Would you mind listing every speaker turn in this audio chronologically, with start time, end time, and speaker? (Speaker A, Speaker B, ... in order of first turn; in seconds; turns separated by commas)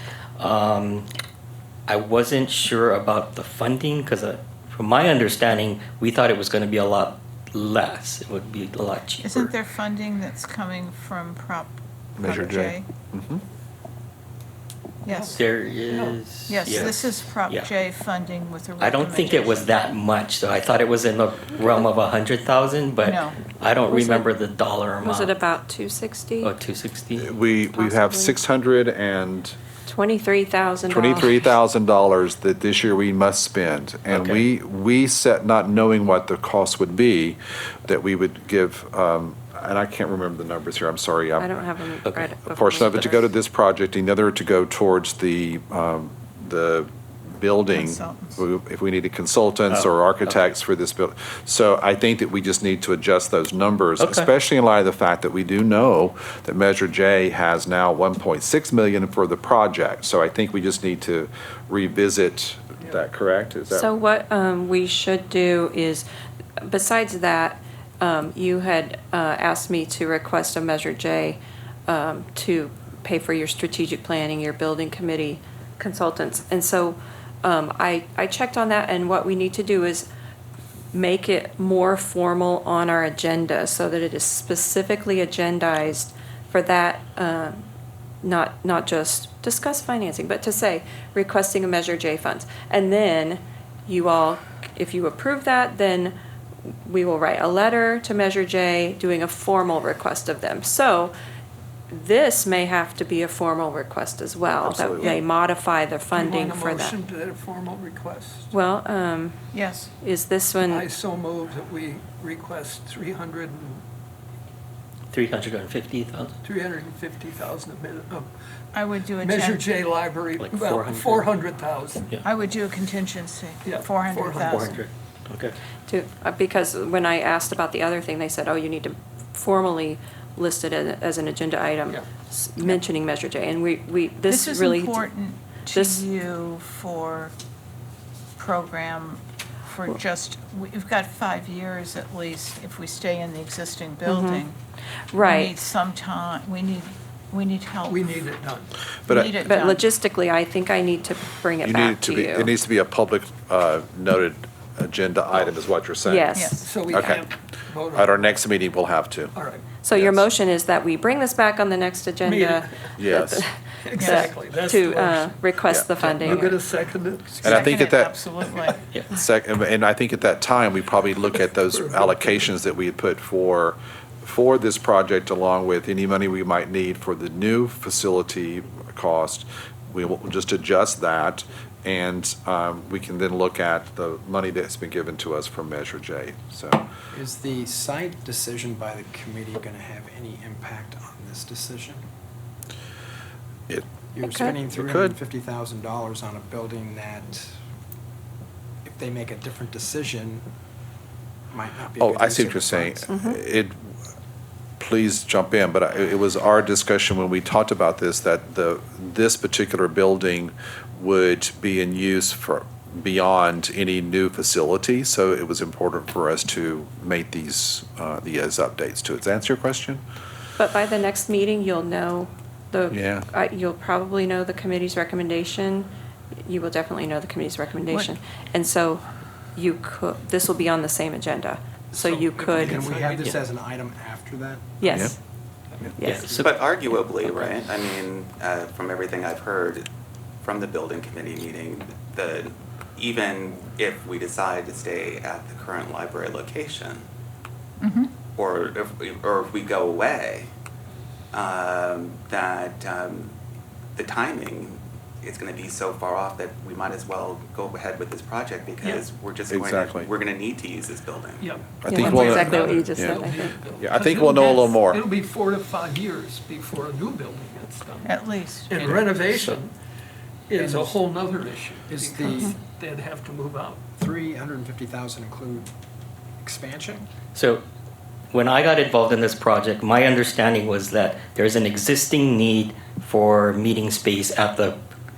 Speaker A: 0.4-1.1, Speaker A: 1.9-9.5, Speaker B: 9.2-12.8, Speaker C: 12.2-13.4, Speaker B: 15.0-15.4, Speaker D: 15.1-16.2, Speaker A: 15.3-17.7, Speaker B: 16.5-19.8, Speaker A: 18.8-25.3, Speaker E: 21.6-21.9, Speaker B: 23.0-23.4, Speaker E: 23.8-24.3, Speaker E: 25.0-26.5, Speaker A: 26.4-27.3, Speaker C: 27.2-29.6, Speaker E: 27.6-28.4, Speaker E: 29.9-31.5, Speaker C: 30.9-41.6, Speaker A: 34.1-34.4, Speaker E: 41.4-43.3, Speaker C: 42.5-63.9, Speaker B: 47.7-48.4, Speaker A: 49.7-50.4, Speaker A: 54.0-54.3, Speaker E: 63.7-66.0, Speaker E: 66.6-80.1, Speaker E: 80.9-87.6, Speaker E: 88.2-96.1, Speaker E: 96.7-101.1, Speaker E: 101.9-107.0, Speaker C: 104.6-105.2, Speaker D: 106.1-108.5, Speaker E: 108.5-109.5, Speaker B: 109.5-109.9, Speaker E: 110.0-110.9, Speaker D: 110.7-113.8, Speaker A: 115.1-116.4, Speaker D: 116.4-118.3, Speaker B: 118.7-119.6, Speaker D: 119.1-122.2, Speaker A: 120.4-121.3, Speaker B: 122.2-124.7, Speaker D: 123.6-124.8, Speaker A: 124.3-125.5, Speaker E: 125.9-135.1, Speaker B: 134.2-137.3, Speaker E: 135.7-136.1, Speaker B: 138.4-144.5, Speaker E: 144.0-144.4, Speaker E: 145.1-145.6, Speaker B: 145.2-148.0, Speaker D: 147.8-148.7, Speaker B: 149.1-149.9, Speaker E: 149.1-152.5, Speaker C: 151.6-157.3, Speaker E: 156.0-156.8, Speaker D: 156.6-158.3, Speaker C: 157.9-159.3, Speaker D: 159.3-159.6, Speaker E: 159.8-166.7, Speaker C: 159.9-160.3, Speaker D: 162.2-162.7, Speaker C: 163.0-163.4, Speaker D: 163.8-167.7, Speaker B: 164.0-164.3, Speaker C: 165.7-166.4, Speaker C: 167.4-168.2, Speaker B: 167.4-168.8, Speaker C: 169.1-186.8, Speaker D: 171.7-172.4, Speaker F: 187.1-192.0, Speaker F: 194.1-197.5, Speaker E: 194.2-194.6, Speaker C: 194.7-195.2, Speaker F: 198.8-200.4, Speaker F: 201.5-203.1, Speaker C: 202.0-203.9, Speaker E: 203.1-203.4, Speaker C: 204.8-220.0, Speaker E: 220.6-225.9, Speaker C: 222.9-223.2, Speaker E: 226.4-229.0, Speaker B: 227.9-228.1, Speaker E: 229.5-232.8, Speaker F: 231.9-235.1, Speaker D: 232.3-233.4, Speaker E: 234.8-235.2, Speaker E: 235.9-236.3, Speaker A: 236.0-237.5, Speaker F: 236.1-236.6, Speaker G: 236.4-239.8, Speaker G: 240.4-247.0, Speaker B: 247.8-248.1, Speaker G: 248.3-250.5, Speaker G: 251.3-253.3, Speaker G: 253.9-261.5, Speaker D: 258.8-259.1, Speaker C: 259.5-260.1, Speaker D: 261.4-269.7, Speaker C: 261.8-265.1, Speaker E: 261.9-263.6, Speaker B: 268.0-269.1, Speaker A: 269.3-269.6, Speaker D: 270.5-273.8, Speaker F: 270.6-271.0, Speaker F: 271.9-272.6, Speaker F: 273.9-275.7, Speaker F: 276.4-277.1, Speaker A: 277.3-277.6, Speaker A: 278.3-284.8